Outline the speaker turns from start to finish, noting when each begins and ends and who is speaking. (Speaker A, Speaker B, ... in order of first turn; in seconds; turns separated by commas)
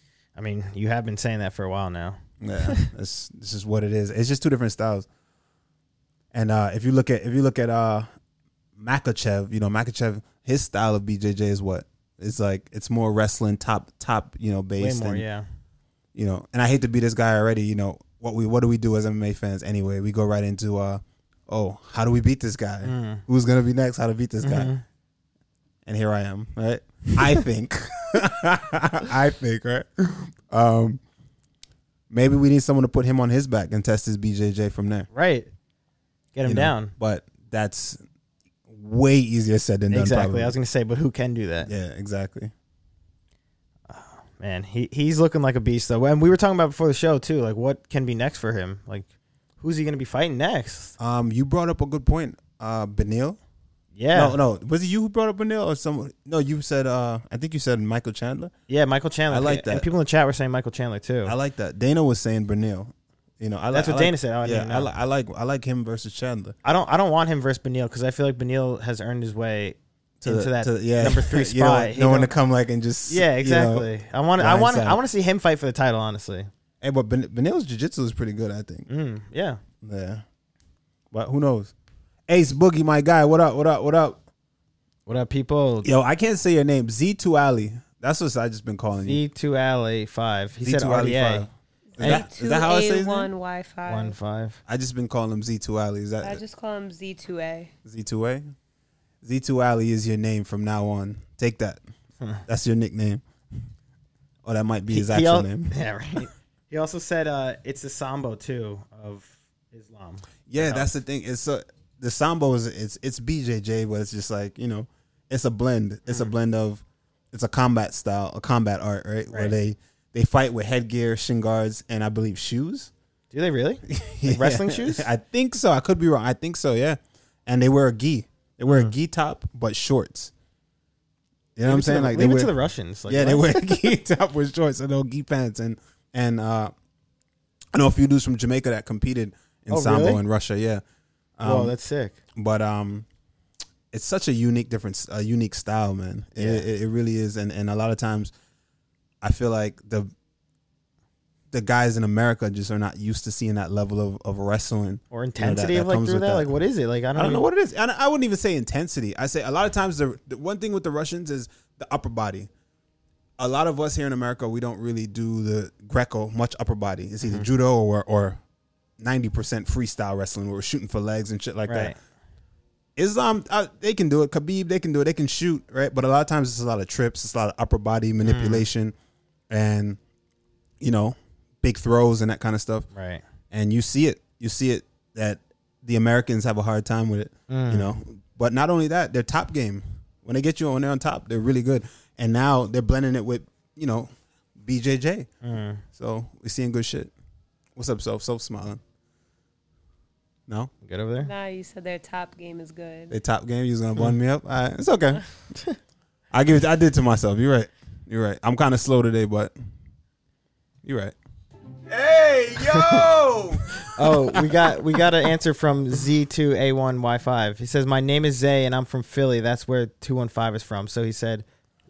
Speaker A: 0.3-2.2, Speaker B: 2.4-5.1, Speaker B: 6.3-8.1, Speaker B: 8.8-15.2, Speaker A: 14.8-15.4, Speaker B: 16.1-24.7, Speaker A: 22.8-23.2, Speaker A: 24.4-24.8, Speaker B: 25.9-31.0, Speaker B: 32.1-35.1, Speaker A: 35.1-35.5, Speaker A: 36.3-36.9, Speaker B: 36.4-38.0, Speaker B: 38.7-40.5, Speaker A: 39.9-41.7, Speaker B: 41.6-42.5, Speaker A: 43.9-49.1, Speaker A: 49.6-50.9, Speaker B: 51.0-53.4, Speaker A: 54.0-54.4, Speaker B: 54.1-58.5, Speaker A: 58.7-61.3, Speaker B: 59.3-59.9, Speaker B: 61.2-66.6, Speaker A: 63.7-64.9, Speaker A: 66.6-72.3, Speaker B: 70.2-75.0, Speaker A: 73.1-76.5, Speaker B: 76.8-78.9, Speaker A: 78.9-79.6, Speaker B: 79.8-80.2, Speaker B: 81.1-81.7, Speaker B: 82.3-84.2, Speaker A: 85.1-85.9, Speaker B: 85.8-89.2, Speaker A: 89.0-91.5, Speaker B: 90.6-93.3, Speaker C: 91.9-94.1, Speaker A: 93.9-94.6, Speaker B: 94.7-96.4, Speaker C: 96.2-97.7, Speaker B: 97.8-98.4, Speaker B: 99.2-101.8, Speaker B: 102.5-103.2, Speaker B: 104.4-106.2, Speaker A: 104.9-110.9, Speaker B: 110.5-122.9, Speaker A: 119.3-119.5, Speaker A: 123.3-125.1, Speaker B: 123.9-130.3, Speaker A: 128.7-128.9, Speaker B: 131.6-132.5, Speaker A: 131.7-133.9, Speaker B: 133.1-136.7, Speaker B: 137.7-140.8, Speaker A: 139.7-140.2, Speaker B: 141.4-141.8, Speaker A: 141.4-142.2, Speaker B: 142.4-143.1, Speaker B: 143.9-148.3, Speaker A: 146.4-146.7, Speaker B: 149.2-150.1, Speaker B: 151.5-156.5, Speaker A: 155.1-157.5, Speaker B: 157.1-162.5, Speaker B: 163.4-168.4, Speaker A: 167.2-167.5, Speaker B: 169.0-171.9, Speaker A: 171.7-171.9, Speaker B: 172.9-178.9, Speaker A: 178.2-178.7, Speaker B: 179.5-180.0, Speaker B: 180.8-182.9, Speaker A: 182.9-183.2, Speaker B: 183.5-195.3, Speaker A: 187.5-187.9, Speaker A: 195.4-195.8, Speaker B: 195.9-197.1, Speaker B: 197.8-198.8, Speaker A: 200.8-201.3, Speaker C: 201.2-203.1, Speaker B: 203.1-205.2, Speaker B: 206.3-209.5, Speaker B: 210.8-211.2, Speaker B: 211.9-215.0, Speaker A: 212.7-213.0, Speaker A: 213.8-221.4